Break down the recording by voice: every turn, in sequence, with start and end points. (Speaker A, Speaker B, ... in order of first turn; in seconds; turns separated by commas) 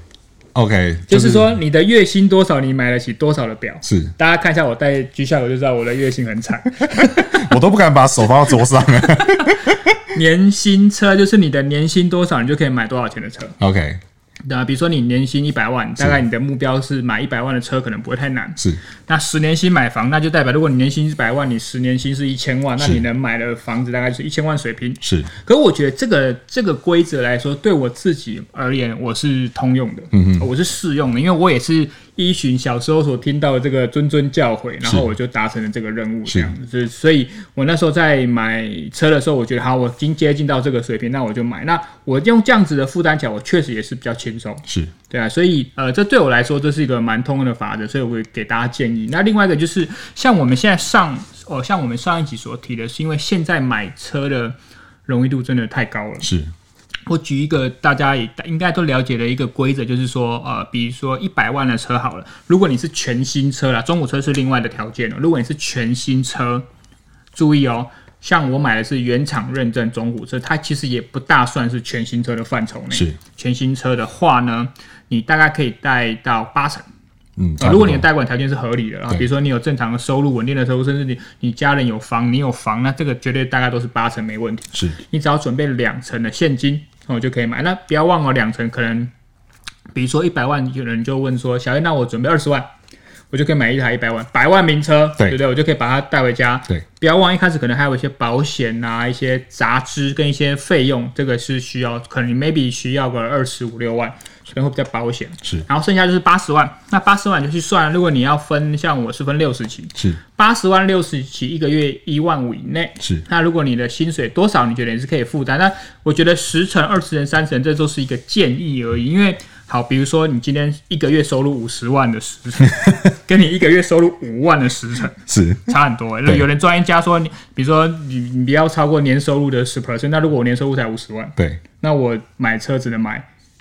Speaker A: 0.6-1.5, Speaker B: 1.1-7.5, Speaker A: 3.9-4.1, Speaker A: 7.0-9.9, Speaker B: 9.3-9.5, Speaker B: 10.1-13.6, Speaker A: 13.6-14.0, Speaker B: 14.5-54.6, Speaker A: 25.0-25.3, Speaker A: 30.1-30.5, Speaker A: 34.8-35.1, Speaker A: 36.3-36.5, Speaker A: 44.7-44.9, Speaker B: 55.1-56.3, Speaker A: 56.2-56.5, Speaker B: 57.1-66.7, Speaker B: 67.3-76.9, Speaker A: 72.9-73.2, Speaker A: 77.4-78.1, Speaker B: 77.6-89.1, Speaker B: 90.0-92.7, Speaker B: 93.3-133.3, Speaker A: 125.3-125.7